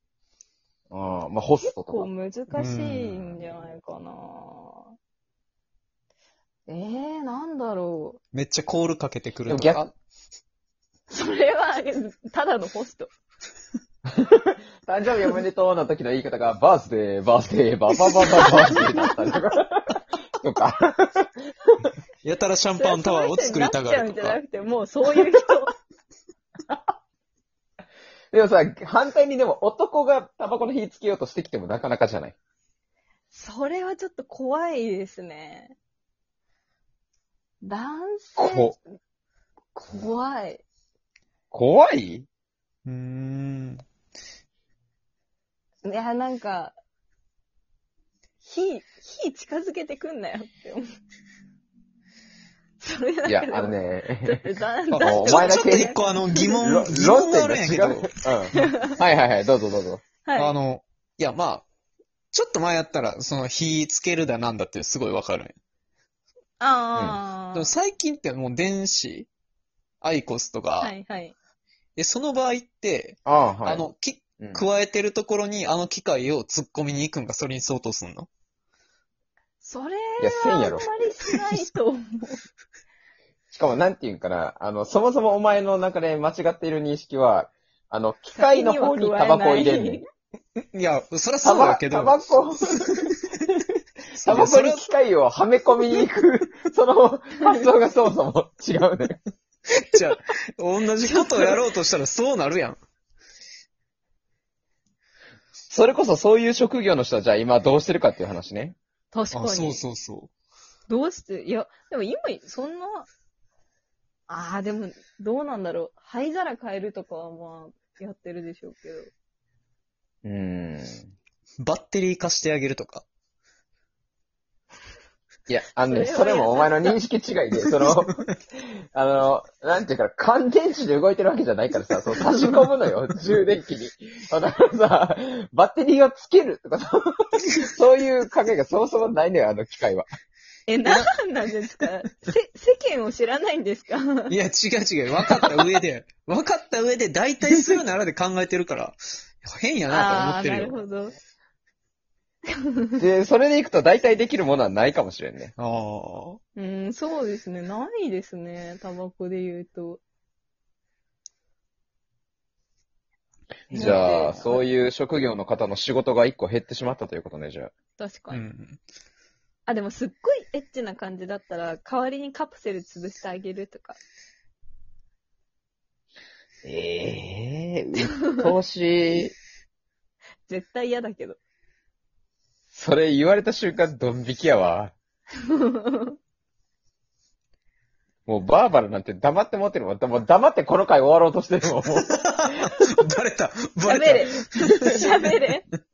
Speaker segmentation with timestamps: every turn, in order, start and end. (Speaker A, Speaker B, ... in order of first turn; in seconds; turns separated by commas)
Speaker A: 0.9-2.1, Speaker B: 1.6-4.9, Speaker C: 2.5-3.2, Speaker B: 6.7-8.2, Speaker C: 8.3-9.9, Speaker A: 9.5-9.9, Speaker B: 11.1-13.1, Speaker A: 14.1-21.3, Speaker B: 18.4-18.8, Speaker C: 22.2-24.4, Speaker B: 22.8-25.7, Speaker A: 28.3-32.3, Speaker B: 33.3-35.7, Speaker B: 37.6-38.8, Speaker A: 38.4-38.8, Speaker B: 39.7-40.6, Speaker A: 41.5-42.2, Speaker C: 42.9-43.8, Speaker B: 45.8-46.7, Speaker B: 48.4-50.8, Speaker B: 52.8-56.6, Speaker A: 53.2-54.4, Speaker C: 54.9-58.1, Speaker A: 55.0-56.0, Speaker A: 56.6-60.0, Speaker B: 60.2-60.5, Speaker C: 60.4-61.6, Speaker C: 62.3-65.5, Speaker B: 66.6-67.7, Speaker C: 67.5-69.3, Speaker C: 70.0-70.9, Speaker B: 70.8-71.3, Speaker C: 72.0-78.3, Speaker A: 73.2-73.9, Speaker B: 79.6-82.4, Speaker A: 80.2-80.8, Speaker A: 83.5-90.0, Speaker B: 88.3-90.0, Speaker C: 90.7-92.2, Speaker A: 91.4-92.9, Speaker C: 94.2-94.8, Speaker A: 94.2-99.2, Speaker C: 99.8-102.8, Speaker B: 101.1-101.5, Speaker A: 105.7-108.8, Speaker B: 109.1-109.8, Speaker C: 109.3-110.3, Speaker B: 110.9-113.1, Speaker B: 114.3-119.1, Speaker A: 120.2-121.1, Speaker C: 121.6-123.0, Speaker A: 125.5-140.1, Speaker B: 125.8-127.0, Speaker C: 127.8-128.2, Speaker B: 140.7-144.3, Speaker C: 144.3-150.8, Speaker B: 145.2-145.7, Speaker B: 149.9-151.2, Speaker A: 153.0-155.5, Speaker C: 155.6-156.4, Speaker B: 156.6-160.0, Speaker B: 163.7-164.7, Speaker A: 163.7-167.7, Speaker B: 168.0-168.4, Speaker C: 168.3-168.8, Speaker B: 169.7-174.0, Speaker A: 176.6-179.3, Speaker B: 180.4-181.4, Speaker A: 182.7-184.9, Speaker B: 185.5-186.2, Speaker A: 188.3-192.1, Speaker C: 191.9-195.3, Speaker B: 193.9-195.6